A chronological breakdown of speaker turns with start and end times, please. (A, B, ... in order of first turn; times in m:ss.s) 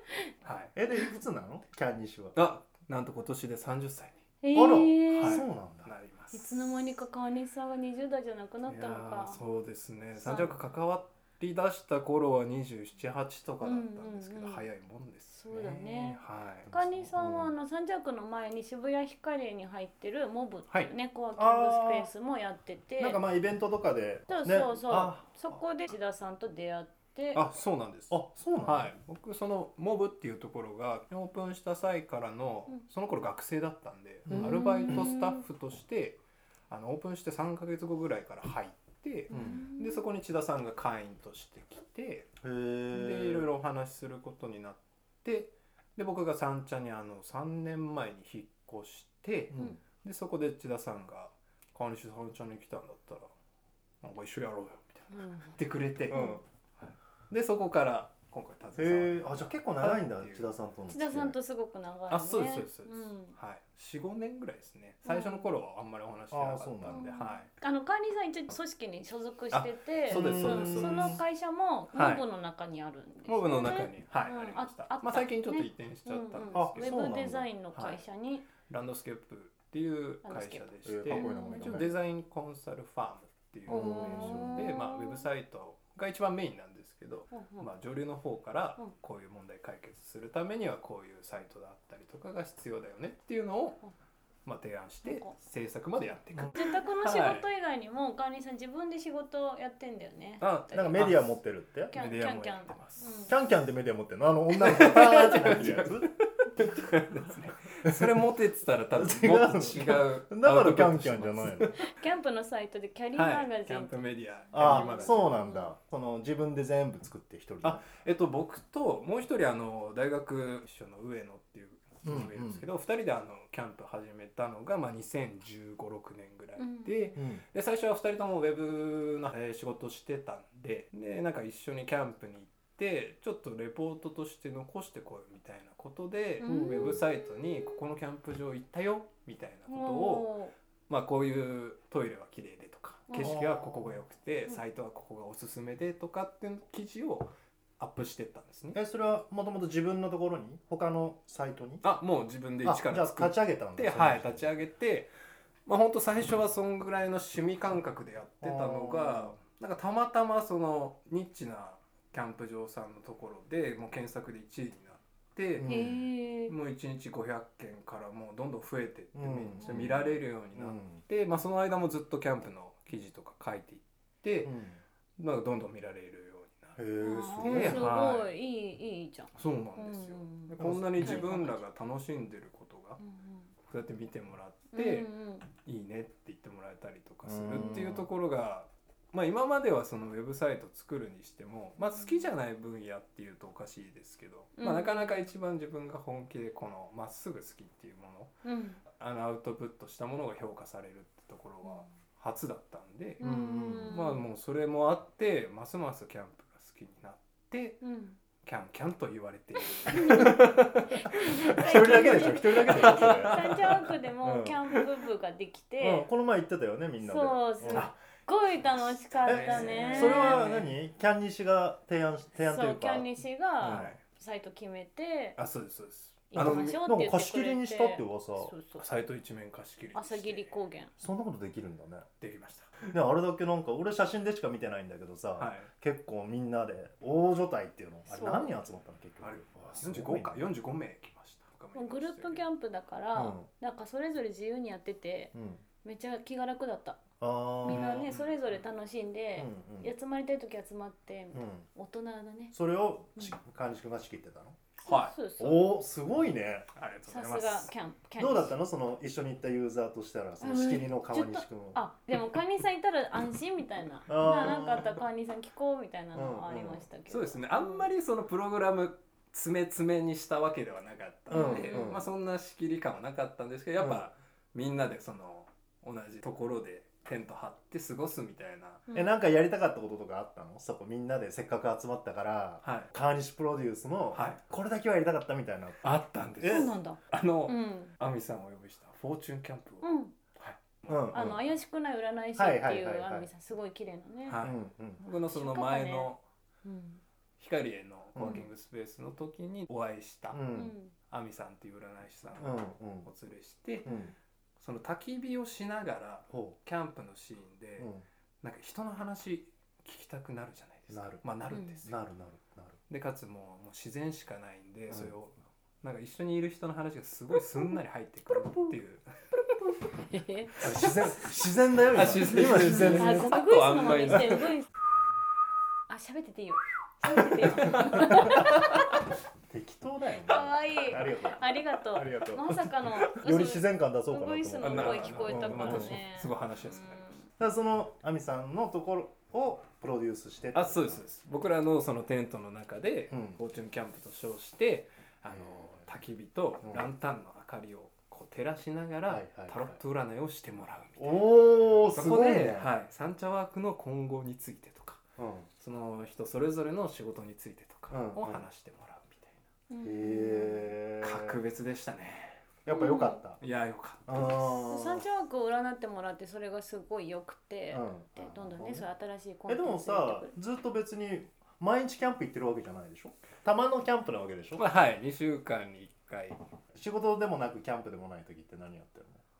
0:00.4-0:00.7 A
0:00.8-0:02.4 B
0:02.4-0:04.2 A
0:04.4-0:05.4 C
0:04.5-0:05.9 B
0:05.2-0:06.9 A
0:06.3-0:09.4 C
0:08.7-0:16.7 A
0:10.2-0:10.5 C
0:13.6-0:14.6 C
0:15.4-0:23.2 C
0:16.7-0:17.5 B
0:21.4-0:22.1 B
0:23.0-0:25.6 B
0:24.3-0:27.4 C
0:27.4-0:42.3 A
0:28.1-0:28.9 B
0:34.3-0:35.1 B
0:34.4-0:35.4 C
0:39.3-0:40.0 C
0:39.3-0:39.6 B
0:42.4-0:43.5 B
0:42.9-0:53.3 A
0:49.5-0:49.8 B
0:54.0-1:00.5 A
0:55.1-0:55.6 C
0:56.1-0:56.4 B
0:56.1-0:56.4 C
0:58.8-1:01.4 B
1:00.9-1:03.3 C
1:02.1-1:07.5 A
1:05.1-1:05.5 C
1:06.3-1:07.1 B
1:06.9-1:18.5 C
1:09.5-1:11.2 A
1:10.1-1:11.2 B
1:11.9-1:12.2 A
1:13.3-1:17.1 A
1:16.5-1:17.5 B
1:17.7-1:18.0 A
1:18.6-1:33.8 A
1:20.2-1:21.9 C
1:20.8-1:21.9 B
1:23.7-1:24.7 B
1:23.7-1:25.2 C
1:27.3-1:27.7 C
1:34.4-1:37.4 A
1:35.0-1:35.3 C
1:36.5-1:41.1 C
1:40.4-1:41.3 A
1:40.7-1:42.0 B
1:41.9-1:43.3 C
1:41.9-1:43.2 A
1:43.3-1:46.2 B
1:44.6-1:51.8 A
1:49.0-1:51.8 B
1:51.8-1:54.0 C
1:53.2-1:55.2 A
1:54.5-1:55.7 C
1:54.5-1:57.8 B
1:57.6-2:20.3 A
2:02.0-2:02.6 B
2:06.6-2:07.2 C
2:07.2-2:07.4 B
2:16.4-2:17.0 C
2:16.5-2:17.0 B
2:19.7-2:20.5 C
2:20.9-2:28.8 A
2:23.1-2:23.4 C
2:23.2-2:24.0 B
2:28.7-2:31.8 B
2:31.8-2:35.1 A
2:32.6-2:34.5 B
2:35.7-2:45.7 A
2:38.4-2:39.4 B
2:45.6-2:46.0 B
2:45.6-2:46.5 C
2:46.5-2:54.6 A
2:49.2-2:50.0 B
2:49.6-2:49.9 C
2:50.5-2:51.0 B
2:54.4-2:54.8 B
2:55.2-2:58.3 A
2:56.8-2:57.9 B
2:57.0-3:01.6 C
2:59.4-3:03.0 A
3:00.6-3:01.3 B
3:03.0-3:03.5 C
3:03.6-3:18.3 A
3:04.7-3:05.5 C
3:07.2-3:08.1 B
3:07.6-3:07.9 C
3:11.8-3:12.3 C
3:14.6-3:15.3 C
3:18.4-3:18.8 C
3:18.9-3:27.8 A
3:23.2-3:24.2 C
3:23.2-3:24.0 B
3:27.8-3:28.2 C
3:28.4-3:33.9 A
3:29.9-3:30.3 C
3:30.9-3:36.1 C
3:31.6-3:33.4 B
3:34.2-3:34.6 B
3:35.8-3:37.9 B
3:37.0-3:40.5 C
3:39.1-3:40.7 A
3:39.3-3:43.1 B
3:42.4-3:45.4 C
3:43.6-3:43.9 B
3:43.6-3:44.0 A
3:45.4-3:46.8 A
3:46.3-3:49.0 C
3:46.4-3:48.5 B
3:48.8-3:50.6 A
3:49.9-3:50.9 C
3:51.0-3:52.1 B
3:52.2-3:52.8 A
3:52.9-4:00.5 B
3:55.4-3:55.7 A
3:58.1-3:58.6 C
3:59.2-4:02.4 A
4:01.8-4:05.3 C
4:03.2-4:03.5 B
4:05.3-4:05.6 B
4:05.8-4:07.0 C
4:07.2-4:08.0 B
4:07.6-4:12.6 C
4:07.7-4:08.4 A
4:09.4-4:09.9 B
4:11.3-4:11.7 B
4:12.5-4:14.6 B
4:14.8-4:15.7 C
4:14.9-4:15.2 A
4:15.4-4:16.7 B
4:16.8-4:17.7 A
4:17.1-4:18.6 C
4:18.2-4:21.8 B
4:20.4-4:27.9 C
4:24.1-4:25.0 B
4:26.1-4:26.8 B
4:27.1-4:38.9 A
4:31.3-4:32.0 C
4:31.3-4:32.1 B
4:38.9-4:46.7 B
4:42.6-4:42.9 A
4:44.1-4:44.4 A
4:45.8-4:51.1 A
4:46.4-4:47.9 C
4:49.8-4:50.1 C
4:50.9-4:51.4 B
4:51.1-4:54.4 C
4:52.4-4:53.3 B
4:54.3-4:56.2 A
4:54.4-4:55.0 B
4:55.3-4:56.1 C
4:56.6-4:57.0 C
4:57.4-5:00.4 A
4:58.2-4:58.4 B
5:00.3-5:00.7 B
5:00.5-5:00.9 C
5:01.0-5:03.9 A
5:02.4-5:03.1 B
5:03.8-5:04.2 B
5:04.6-5:07.9 A
5:06.3-5:06.6 B
5:07.8-5:08.0 B
5:08.4-5:12.0 A
5:10.9-5:11.2 B
5:11.8-5:12.8 B
5:12.9-5:19.1 A
5:20.0-5:20.9 C
5:20.6-5:21.2 A
5:20.6-5:23.4 B
5:21.9-5:24.6 A
5:22.7-5:24.7 C
5:25.9-5:28.9 C
5:27.6-5:28.0 A
5:27.9-5:28.6 B
5:29.5-5:36.0 B
5:30.2-5:37.2 C
5:34.6-5:37.2 A
5:37.4-5:41.0 B
5:40.5-5:51.2 A
5:43.1-5:43.4 B
5:49.1-5:49.8 B
5:51.0-5:52.7 B
5:51.9-5:55.0 A
5:55.2-5:55.5 B
5:55.6-5:59.4 A
5:57.9-5:58.4 B
5:59.7-6:00.8 C
5:59.8-6:01.4 B
6:01.0-6:02.4 A
6:02.7-6:03.4 B
6:02.7-6:03.2 C
6:03.4-6:04.7 A
6:04.1-6:05.0 B
6:04.6-6:10.4 C
6:07.7-6:08.9 B
6:09.5-6:14.7 B
6:14.6-6:16.4 A
6:16.8-6:19.2 B